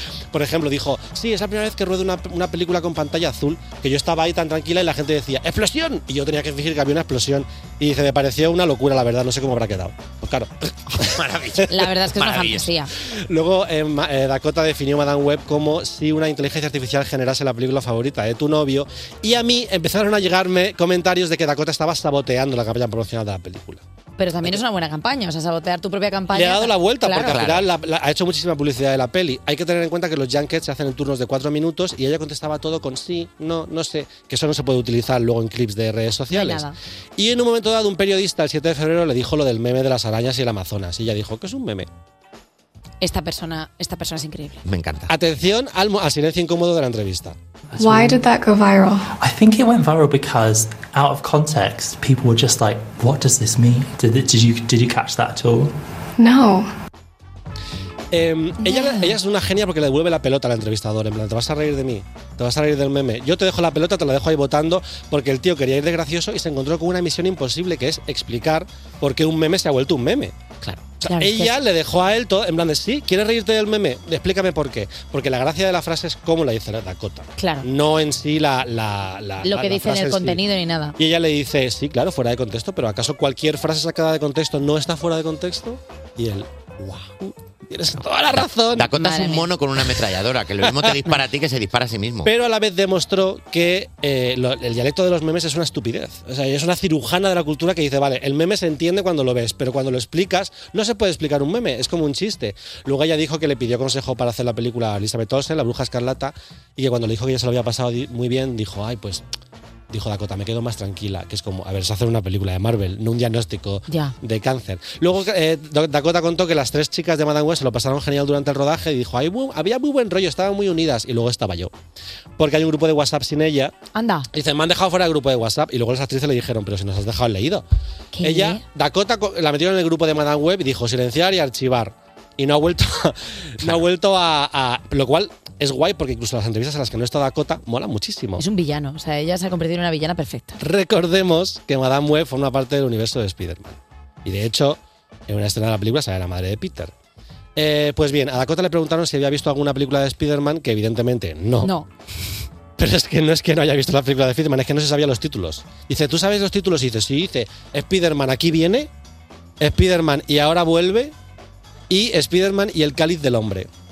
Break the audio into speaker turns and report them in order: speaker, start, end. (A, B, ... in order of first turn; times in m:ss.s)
0:00.3-0:10.5 A
0:11.0-0:12.7 B
0:11.7-0:12.9 C
0:13.3-0:23.8 A
0:24.2-0:27.4 C
0:26.3-0:41.9 A
0:27.2-0:27.7 B
0:36.3-0:36.8 C
0:43.0-0:44.6 C
0:44.6-0:45.1 B
0:45.1-0:47.4 A
0:47.7-0:48.2 D
0:47.8-0:49.1 E
0:49.2-0:55.8 D
0:56.2-0:56.7 E
0:58.1-1:10.3 A
0:58.6-0:59.1 C
1:11.0-1:11.5 C
1:11.0-1:20.4 A
1:17.4-1:17.7 C
1:19.4-1:21.0 C
1:21.0-1:28.9 A
1:28.4-1:32.3 B
1:29.0-1:29.4 C
1:30.6-1:31.0 A
1:32.2-1:49.2 A
1:49.9-2:01.7 A
1:53.9-1:54.1 C
2:02.4-2:03.7 A
2:04.0-2:04.3 C
2:04.3-2:07.6 A
2:08.1-2:08.6 C
2:08.2-2:18.4 A
2:18.4-2:20.6 C
2:20.6-2:26.9 A
2:27.6-2:31.7 A
2:31.6-2:31.9 C
2:32.8-2:38.9 A
2:39.6-2:41.1 A
2:41.9-2:43.7 A